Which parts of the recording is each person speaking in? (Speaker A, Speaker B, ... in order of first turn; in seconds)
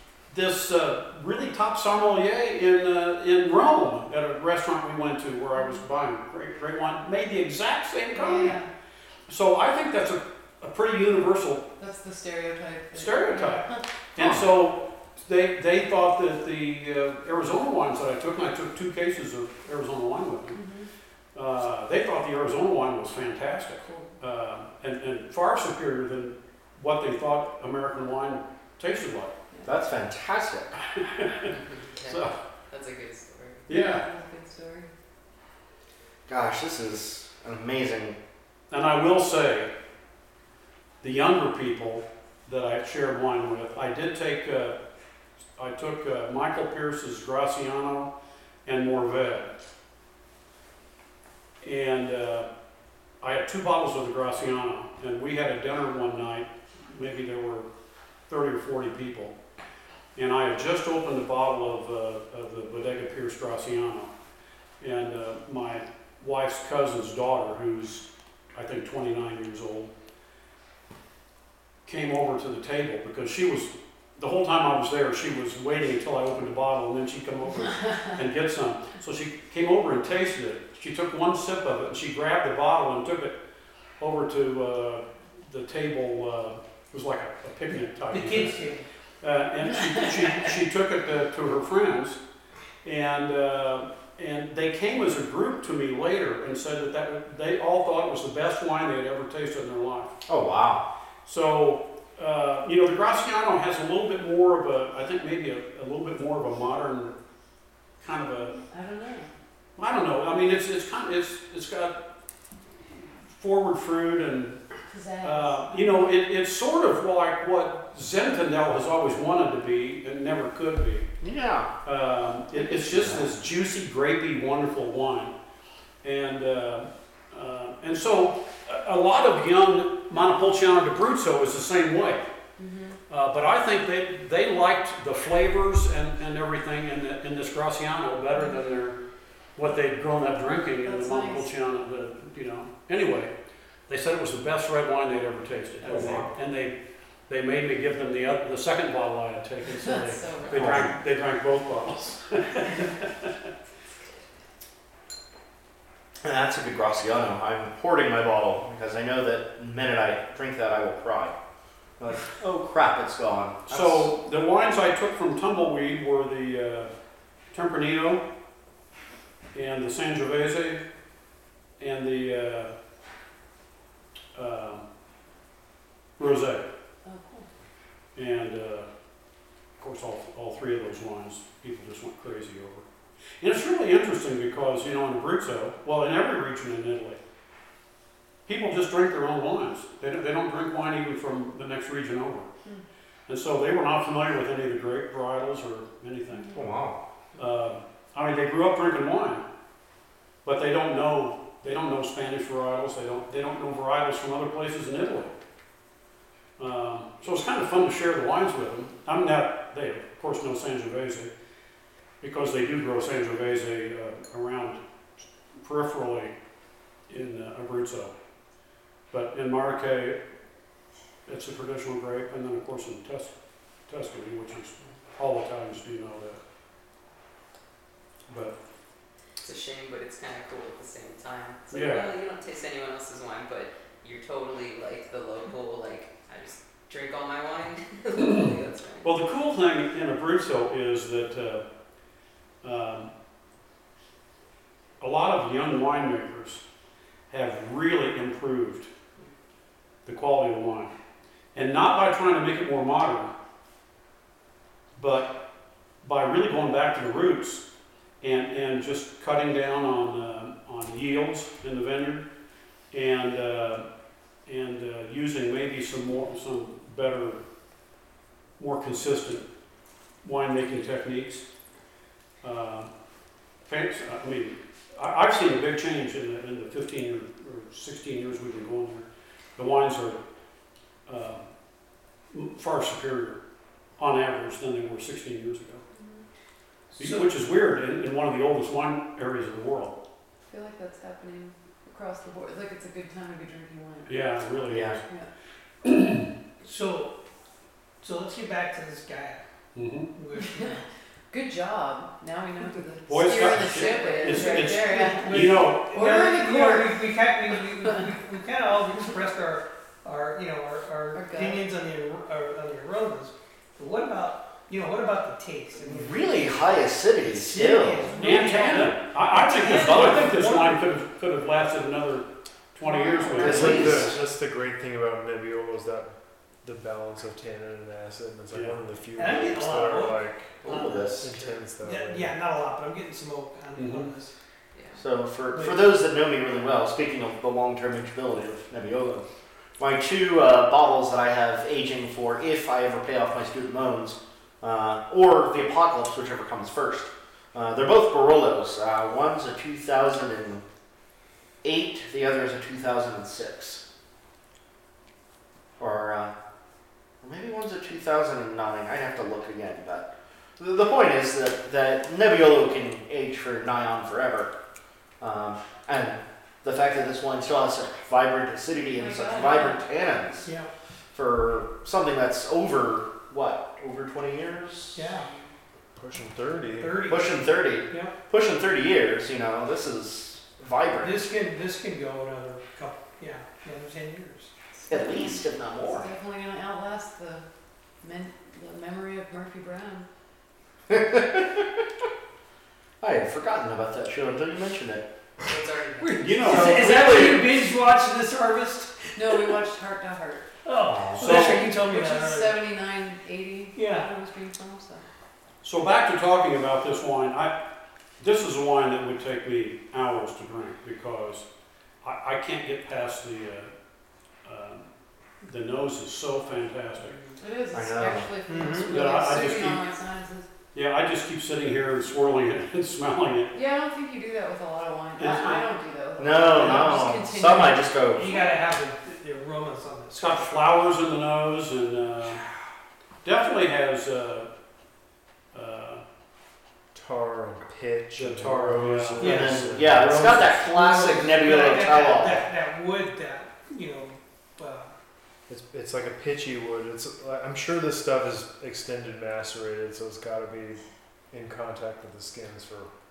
Speaker A: 0.3-8.6, 9.3-11.6, 12.9-20.6, 21.3-29.3, 30.8-32.3, 33.7-34.0, 38.7-39.7, 41.0-44.7, 45.6-48.1, 48.6-49.5, 51.6-52.5, 53.2-57.7, 58.3-59.3, 60.1-64.1, 64.8-69.9, 71.8-83.3, 84.0-88.6, 89.2-92.2, 92.8-100.1, 101.2-107.1, 108.0-108.6, 109.8-112.0, 112.9-114.6, 115.2-121.1, 121.8-125.3, 126.0-132.2, 133.1-139.0, 139.6-143.3, 143.9-146.7, 147.3-153.3, 163.7-166.9, 167.5-168.2, 169.5-170.8, 171.8-172.7, 174.3-174.8, 176.2-176.7, 178.2-178.9, 179.8-182.8, 183.4-187.2, 188.4-192.5, 193.3-196.5, 197.4-199.4, 200.4-205.3, 206.6-211.3, 212.2-214.8, 215.6-216.3, 217.1-218.1, 219.1-220.2, 221.2-223.3, 223.9-226.4, 228.3-228.5, 231.7-232.1, 238.2-238.5, 239.0-241.6, 242.6-243.1, 245.0-246.6, 247.3-248.9, 250.0-250.9, 251.5-253.3, 255.0-255.4, 256.0-257.6, 258.2-262.2, 262.9-263.8, 264.4-267.4, 268.6-269.4, 270.2-271.4, 272.4-272.9, 273.6-280.2, 281.1-281.4, 282.3-283.4, 284.0-285.8, 287.0-289.9, 294.1-295.0, 295.8-296.3, 299.7-300.1, 303.1-305.9, 318.2-324.1, 328.5-328.8, 333.8-334.1, 396.2-397.0, 401.2-401.6, 405.6-407.5, 408.2-411.4, 412.0-413.7, 414.4-414.9, 415.4-417.1, 418.9-419.8, 420.7-423.5, 425.2-425.6, 430.2-432.4, 433.2-434.5, 435.5-436.0, 438.1-441.1
Speaker B: 5.5-5.8, 8.1-8.7, 11.8-13.8, 20.5-20.9, 33.7-34.9, 77.8-78.1, 108.7-109.3, 114.9-116.1, 132.6-133.0, 140.8-141.5, 149.8-150.8, 177.0-177.5, 196.3-196.7, 285.9-286.2, 290.5-294.2, 300.3-307.0, 311.1-311.6, 322.8-323.8, 368.9-369.8, 384.7-387.4, 388.0-390.1, 399.1-400.4, 401.6-405.0, 417.4-420.4, 423.5-428.4
Speaker C: 14.2-14.4, 29.6-30.7, 36.3-38.1, 100.3-100.8, 121.2-121.7, 122.8-123.3, 150.5-150.9, 156.2-161.3, 162.0-164.1, 196.5-197.0, 294.7-295.0, 315.8-318.2, 323.4-324.2, 330.6-331.2, 335.0-339.2, 339.8-350.6, 351.6-353.8, 355.8-356.3, 357.2-364.5, 365.2-370.5, 371.1-375.1, 377.1-381.3, 384.9-386.1, 390.9-391.8, 393.0-395.1, 396.5-397.4, 400.8-401.6, 417.7-418.3, 426.2-428.4, 439.2-442.5
Speaker D: 31.5-33.6, 229.4-239.1, 303.5-304.6, 334.7-335.0, 395.4-396.5, 417.1-417.4
Speaker E: 88.1-88.8, 286.9-287.3, 296.6-297.1, 298.0-299.4, 300.1-300.8, 304.3-316.2, 317.2-320.8, 323.4-324.0, 329.1-334.3, 335.5-335.8, 374.9-375.3, 376.8-378.1, 381.0-384.5, 396.0-399.6, 400.6-402.6, 403.7-404.1, 418.5-419.0, 428.1-430.5, 439.2-439.6, 440.8-444.9
Speaker F: 323.4-332.4, 375.9-377.1, 436.9-440.5, 445.5-452.9